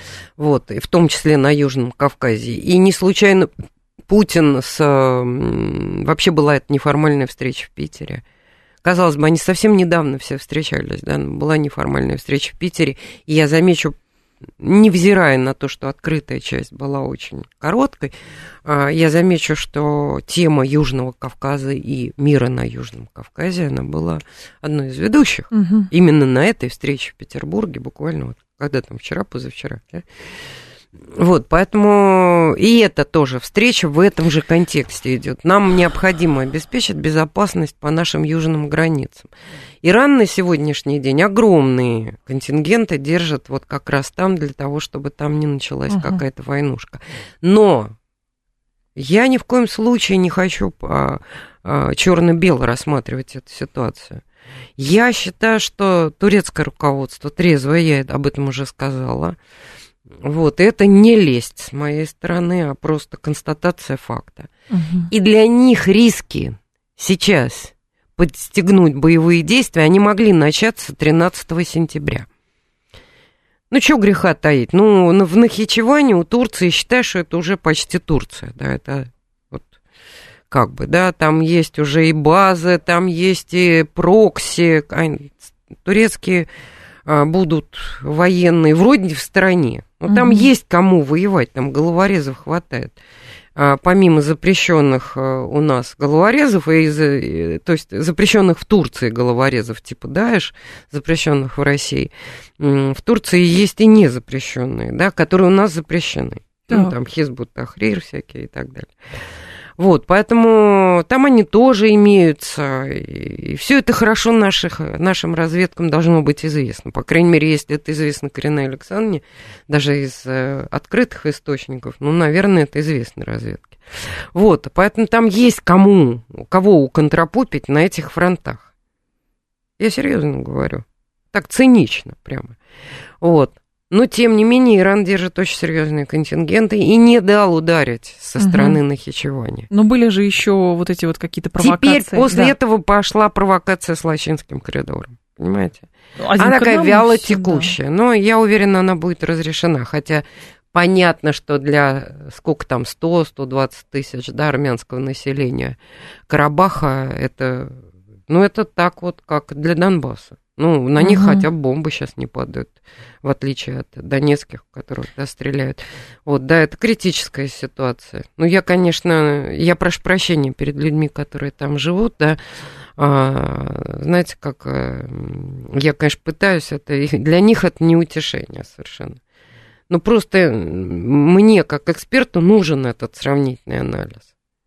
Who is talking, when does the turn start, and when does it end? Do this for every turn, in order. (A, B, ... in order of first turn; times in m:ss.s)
0:00.4-0:03.5 A
0:04.1-0:08.2 A
0:08.8-0:14.0 A
0:14.6-0:18.1 A
0:18.7-0:30.1 A
0:25.5-0:25.9 B
0:31.0-0:39.3 A
0:39.8-0:48.0 A
0:45.9-0:46.2 B
0:49.0-0:54.2 A
0:54.8-0:59.4 A
1:00.1-1:04.5 A
1:04.7-1:05.1 B
1:05.1-1:12.3 A
1:13.7-1:19.8 A
1:20.5-1:26.5 A
1:27.1-1:33.0 A
1:30.1-1:30.5 B
1:33.6-1:48.9 A
1:49.8-2:08.7 A
2:09.8-2:12.6 A
2:13.2-2:19.7 A
2:18.4-2:18.8 B
2:19.7-2:22.5 B
2:21.6-2:25.9 A
2:26.2-2:27.8 B
2:26.4-2:52.4 A
2:41.0-2:41.4 B
2:53.0-2:59.2 A
2:59.9-3:04.3 A